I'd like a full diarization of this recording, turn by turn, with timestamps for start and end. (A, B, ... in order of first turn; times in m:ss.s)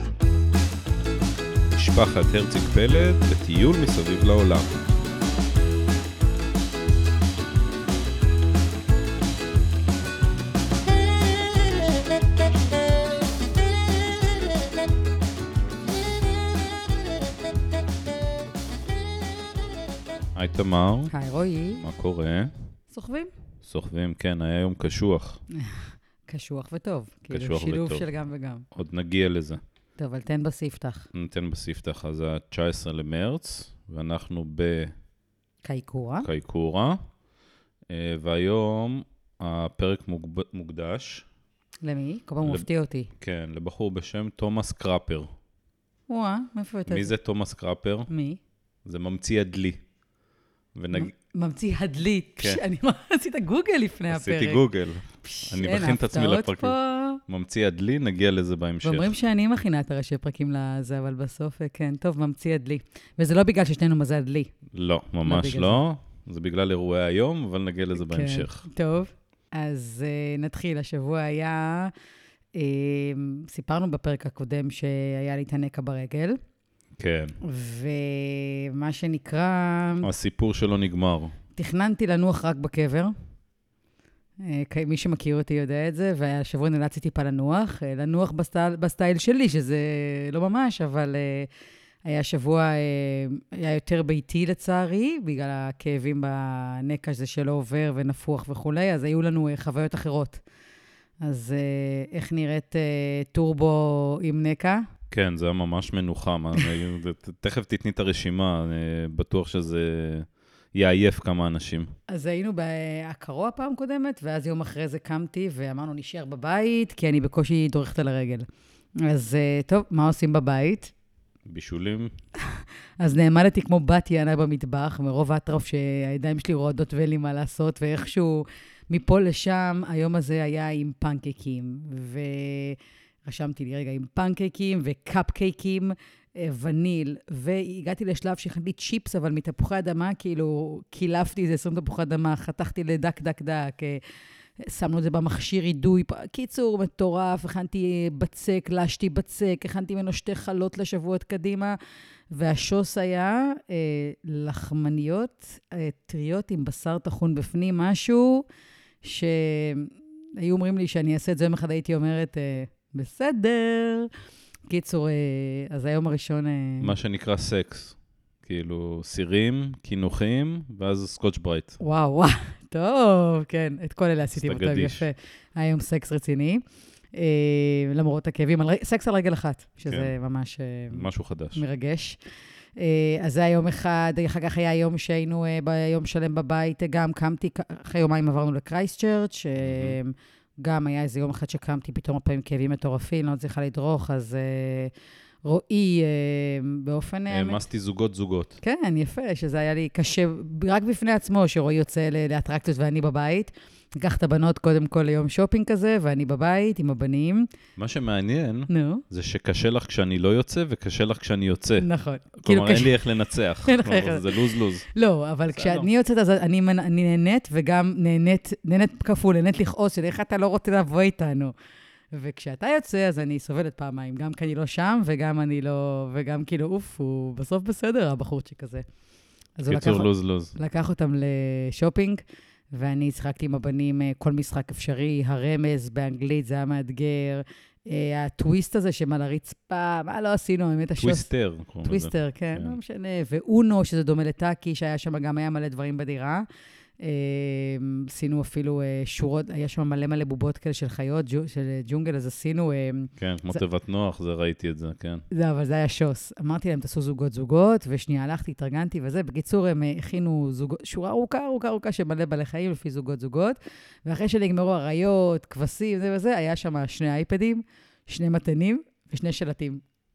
0:01.7-0:04.8 A
0:20.4-0:21.1 A
0:21.1-0:21.8 B
0:21.8-0:22.5 A
0:22.9-0:23.3 B
0:23.6-0:25.4 A
0:25.5-0:28.7 B
0:27.3-0:28.1 A
0:28.7-0:29.6 A
0:30.0-0:31.1 B
0:31.1-0:34.9 A
0:35.6-0:36.3 B
0:36.2-0:37.0 A
0:37.9-0:41.3 A
0:41.8-0:43.1 B
0:43.2-0:45.3 A
0:46.1-0:47.1 B
0:46.9-0:48.1 A
0:48.1-0:48.4 B
0:48.8-0:49.8 A
0:50.8-0:51.1 A
0:50.9-0:54.6 B
0:52.4-0:52.6 A
0:54.1-0:56.8 A
0:55.2-0:57.2 B
0:57.3-0:59.2 A
0:58.8-1:04.5 B
1:04.7-1:08.7 A
1:05.2-1:05.8 B
1:08.0-1:11.9 B
1:12.6-1:16.4 B
1:17.0-1:17.4 A
1:17.4-1:20.1 B
1:20.0-1:21.3 A
1:21.6-1:23.1 B
1:24.4-1:31.5 B
1:32.0-1:40.4 B
1:41.2-1:44.8 B
1:45.1-1:51.9 A
1:52.1-1:58.5 B
1:59.0-2:00.9 B
2:01.5-2:02.1 A
2:02.5-2:24.0 B
2:24.6-2:31.8 B
2:32.3-2:38.4 B
2:39.0-2:44.1 B
2:44.7-2:46.9 B
2:46.8-2:51.8 A
2:51.8-2:56.6 B
2:54.4-2:55.1 A
2:57.2-3:02.2 B
2:59.9-3:00.1 A
3:00.9-3:01.6 A
3:02.8-3:14.9 B
3:09.6-3:10.0 A
3:15.4-3:17.6 B
3:17.3-3:18.6 A
3:18.6-3:27.5 B
3:27.8-3:31.9 A
3:28.7-3:29.0 B
3:31.8-3:33.0 B
3:32.4-3:34.8 A
3:33.6-3:41.5 B
3:35.5-3:35.9 A
3:42.1-3:48.8 B
3:49.6-4:01.3 B
3:49.7-3:50.5 A
4:01.0-4:02.8 A
4:01.8-4:06.5 B
4:07.0-4:13.6 B
4:13.2-4:15.2 A
4:15.3-4:29.8 B